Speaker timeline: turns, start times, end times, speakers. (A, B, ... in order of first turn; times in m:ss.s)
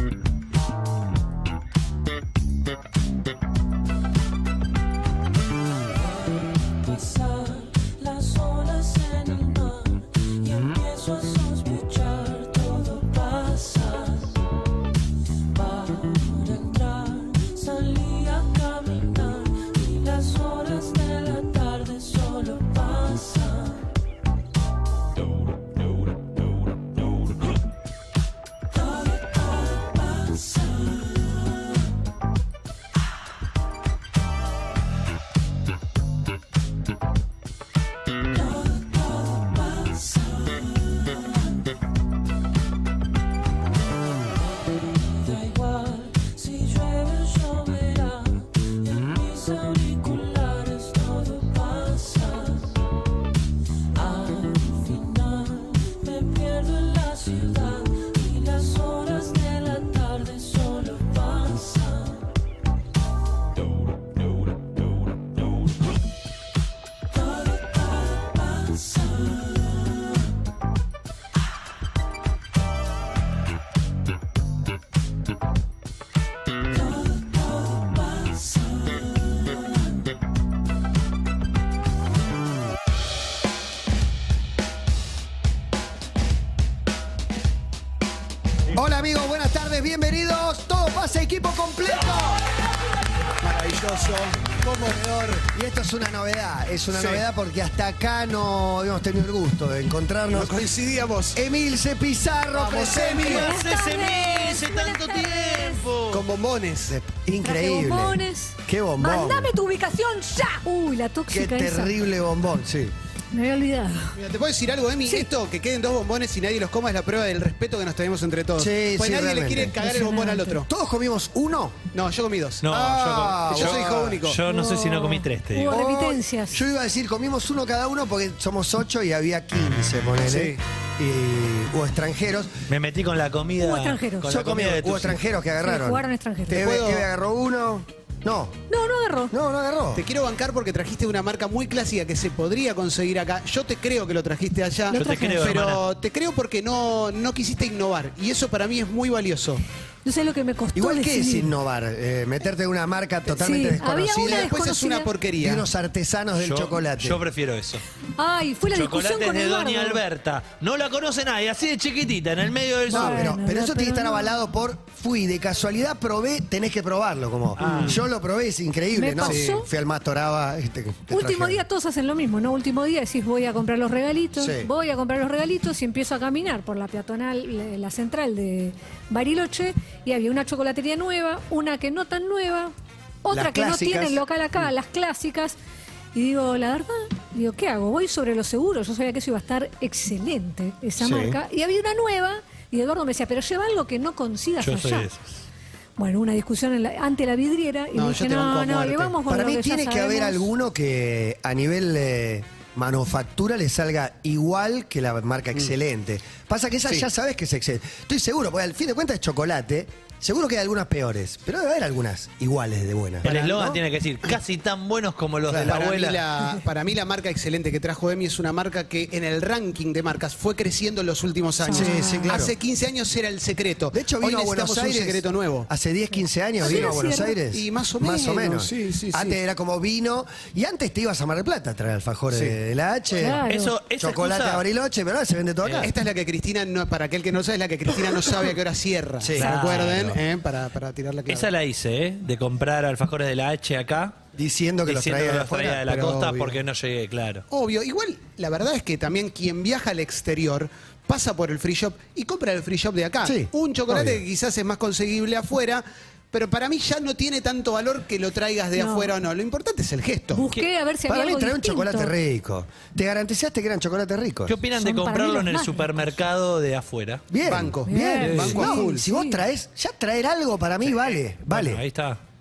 0:06.8-0:14.4 A
0:15.5-0:23.8 A
0:29.2-0:30.6 A
0:38.6-0:41.2 A
0:45.2-0:52.7 A
0:54.0-1:02.2 A
1:07.7-1:09.0 A
1:28.7-1:32.4 B
1:33.4-1:35.5 C
1:35.5-1:40.7 B
1:36.9-1:37.2 C
1:40.3-1:41.4 C
1:41.3-1:43.4 B
1:42.5-1:43.5 C
1:43.2-1:46.2 D
1:43.2-1:45.8 E
1:46.1-1:47.0 C
1:46.9-1:49.5 B
1:47.4-1:52.0 E
1:51.3-1:53.0 B
1:53.3-1:54.2 E
1:54.2-2:00.7 C
1:58.6-1:59.8 B
1:59.8-2:00.6 E
2:00.7-2:01.8 B
2:01.9-2:04.4 C
2:02.6-2:05.8 D
2:03.1-2:04.2 B
2:04.5-2:06.6 E
2:05.7-2:12.5 B
2:10.3-2:10.6 C
2:12.7-2:15.2 D
2:13.6-2:14.3 E
2:14.2-2:18.6 B
2:15.6-2:16.7 E
2:16.5-2:17.1 C
2:18.7-2:19.3 E
2:19.3-2:20.0 B
2:20.0-2:29.6 C
2:24.9-2:25.6 E
2:24.9-2:25.8 D
2:30.0-2:31.5 E
2:30.8-2:34.5 B
2:33.3-2:35.1 E
2:34.3-2:35.6 C
2:35.4-2:37.2 B
2:36.4-2:37.8 D
2:38.2-2:40.0 E
2:38.7-2:43.3 D
2:42.9-2:51.6 B
2:42.9-2:44.4 E
2:47.6-2:48.0 D
2:47.6-2:48.0 C
2:48.9-2:49.7 E
2:49.3-2:49.5 C
2:51.1-3:02.7 E
2:54.4-2:54.7 B
3:03.2-3:05.6 E
3:03.3-3:04.2 B
3:06.1-3:15.1 E
3:11.0-3:11.4 B
3:14.6-3:15.4 D
3:16.0-3:20.5 E
3:17.9-3:19.2 C
3:19.3-3:33.3 B
3:33.2-3:36.2 D
3:33.3-3:33.8 C
3:35.5-3:36.0 B
3:35.5-3:45.7 C
3:41.6-3:42.4 E
3:41.7-3:42.5 B
3:43.9-3:53.4 B
3:46.6-3:47.4 E
3:46.6-3:47.0 C
3:47.5-3:49.4 C
3:53.2-3:53.8 E
3:53.5-3:54.6 D
3:54.0-3:55.9 B
3:55.6-3:55.9 D
3:55.8-4:01.5 C
3:59.2-4:00.0 B
3:59.4-4:00.2 D
4:01.3-4:04.2 D
4:04.4-4:05.8 B
4:04.9-4:07.4 D
4:05.9-4:06.6 C
4:07.5-4:20.4 C
4:13.2-4:14.2 B
4:18.8-4:19.1 E
4:20.4-4:22.1 E
4:21.1-4:24.6 B
4:24.5-4:27.3 D
4:24.8-4:26.1 E
4:27.3-4:31.8 B
4:27.4-4:29.0 C
4:27.9-4:29.4 E
4:28.2-4:28.6 D
4:31.5-4:32.2 D